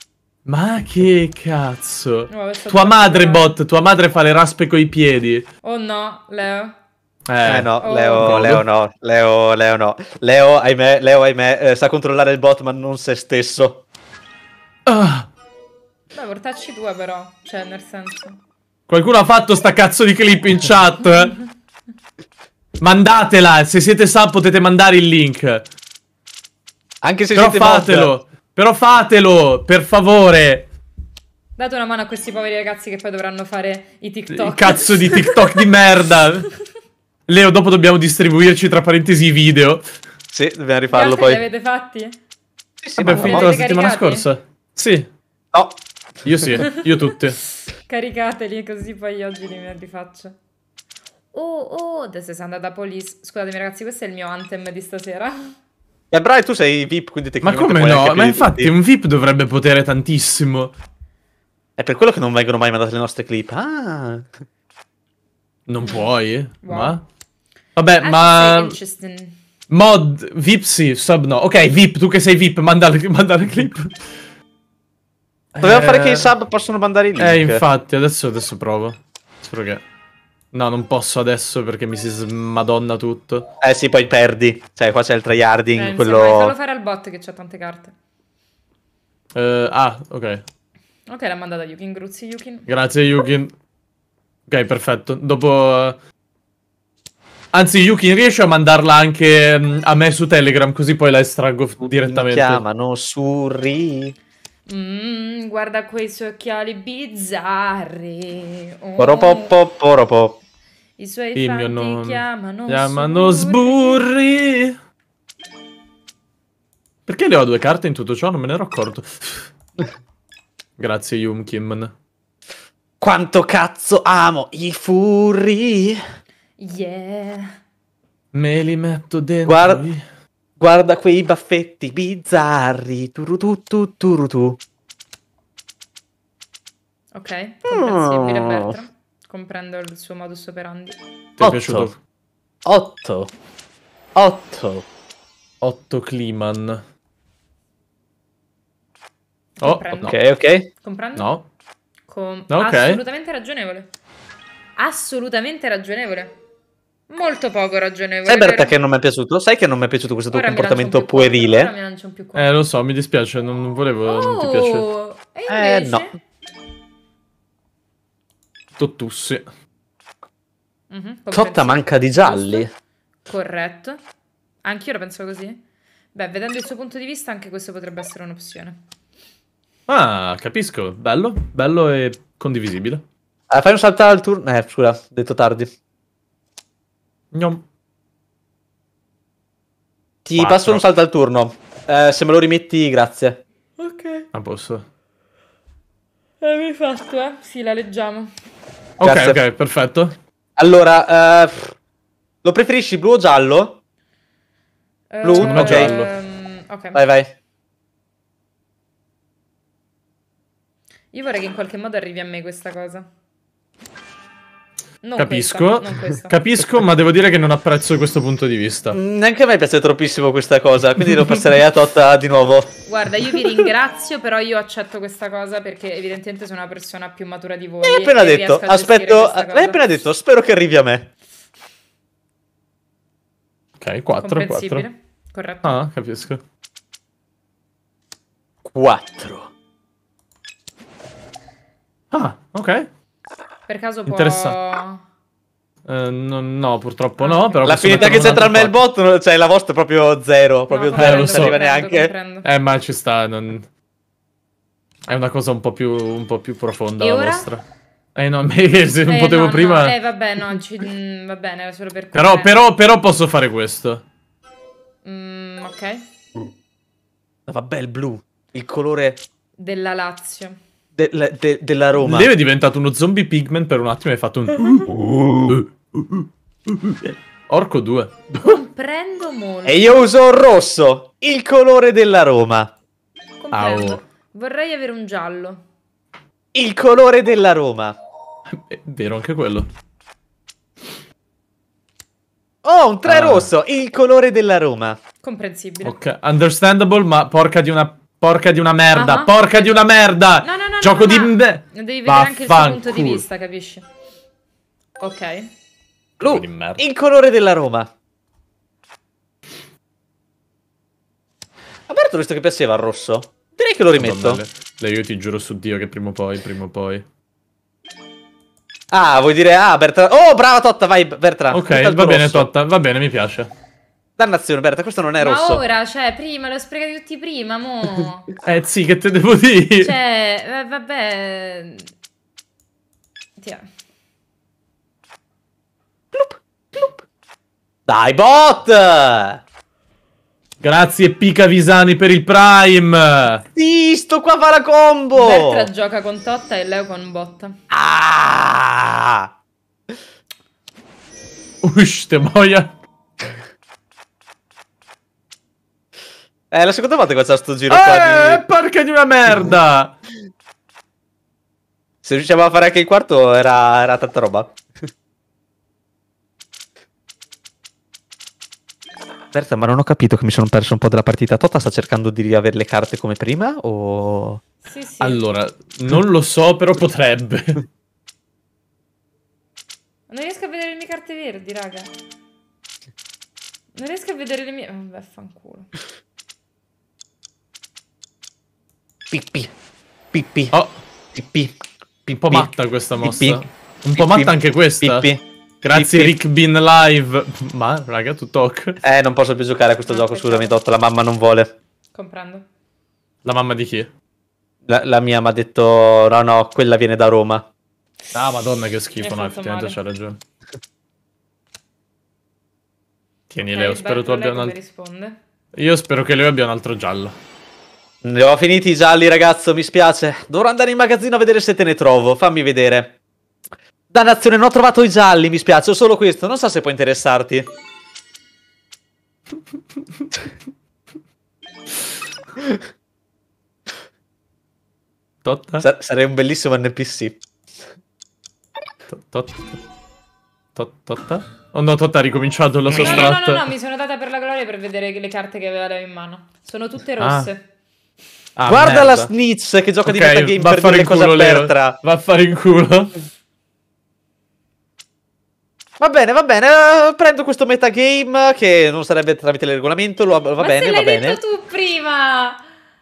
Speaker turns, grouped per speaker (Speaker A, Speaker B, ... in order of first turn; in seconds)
Speaker A: 0.5-5.5, 7.3-8.6, 14.9-15.3, 18.9-21.4, 22.8-25.6, 27.3-30.7, 34.3-36.5, 37.3-39.8, 43.0-45.1, 46.2-47.4, 57.4-60.7, 65.7-67.0, 67.8-68.8, 69.7-74.1, 75.5-76.3, 77.2-79.8, 80.5-83.5, 89.3-90.4, 92.7-93.5, 94.5-96.0, 97.5-102.6, 111.3-114.8, 117.0-119.5, 120.8-121.9, 128.3-130.0, 141.4-141.9, 145.6-146.8, 149.6-150.1, 151.2-151.4, 152.5-153.0, 162.3-164.8, 168.8-169.4, 179.9-183.0, 187.3-187.6, 190.4-190.8, 194.3-194.8, 199.0-200.1, 205.4-206.1, 215.2-219.0, 233.8-234.9, 235.6-236.4, 242.1-242.9, 244.1-244.6, 245.8-248.8, 250.9-251.6, 252.4-253.7, 255.1-257.6, 258.1-260.0, 262.1-264.0, 272.0-278.6, 283.5-284.0, 288.5-289.7, 293.0-293.5, 295.8-303.2, 306.2-306.8, 313.9-317.0, 321.5-323.5, 328.4-329.9, 340.6-343.4, 351.6-352.7, 357.7-360.0, 375.0-377.6, 392.1-395.1, 395.6-398.8, 403.2-403.9, 408.1-410.2, 413.3-414.5, 415.6-417.1, 435.2-435.6, 438.9-439.6, 440.6-443.5, 447.0-447.3, 448.4-449.1, 449.9-452.9
Speaker B: 2.3-3.5, 5.6-6.7, 7.8-8.4, 16.1-18.4, 31.6-35.6, 40.9-42.2, 43.1-44.3, 47.9-50.3, 51.3-55.5, 66.6-67.0, 68.0-69.4, 85.7-87.9, 91.1-92.7, 104.7-109.5, 111.0-114.0, 126.6-127.6, 137.1-141.0, 149.6-150.2, 150.7-151.3, 152.1-153.9, 154.8-156.4, 157.1-158.7, 160.3-162.5, 164.1-166.2, 170.9-172.7, 173.3-174.0, 174.6-175.6, 176.1-178.8, 193.8-194.3, 196.4-198.3, 205.1-207.0, 211.1-213.1, 215.0-216.4, 222.9-230.0, 234.2-235.8, 243.7-245.0, 247.2-248.4, 250.7-252.4, 257.0-257.5, 259.1-262.5, 265.0-266.0, 269.6-270.6, 278.4-280.0, 283.4-285.6, 295.2-295.9, 298.9-303.8, 305.0-305.5, 325.2-328.3, 329.8-331.9, 333.4-333.6, 345.1-347.6, 374.6-375.2, 380.1-381.9, 383.8-385.7, 399.9-400.6, 401.9-402.4, 409.0-409.8, 413.5-415.2, 442.7-447.4, 460.4-462.4
Speaker C: 7.4-13.8, 27.0-28.1, 40.3-41.4, 42.8-43.6, 45.5-45.8, 56.1-58.7, 61.8-64.3, 75.6-77.6, 83.6-86.5, 102.0-104.1, 109.0-110.4, 123.0-126.0, 129.4-129.9, 130.6-134.6, 137.7-138.8, 141.4-141.9, 142.6-143.3, 144.2-144.8, 150.0-150.7, 158.2-161.7, 165.5-166.1, 171.3-172.7, 183.5-185.7, 190.2-193.4, 199.0-199.4, 200.6-201.7, 202.4-203.8, 205.2-205.9, 206.9-207.3, 218.9-222.7, 227.8-231.1, 238.6-239.5, 247.6-252.1, 267.5-269.2, 270.9-272.3, 274.8-275.6, 279.6-282.7, 286.5-288.0, 292.6-295.0, 306.2-307.9, 311.9-314.4, 318.9-322.5, 324.2-325.6, 336.1-337.0, 337.9-339.4, 343.6-345.7, 347.7-349.3, 356.5-358.4, 362.0-364.6, 369.3-374.4, 389.1-389.5, 390.1-390.5, 391.1-391.6, 392.1-395.2, 395.7-396.1, 398.8-401.5, 404.7-407.4, 418.0-422.9, 423.9-427.5, 435.6-437.2, 442.7-443.1, 448.4-451.8, 455.8-461.2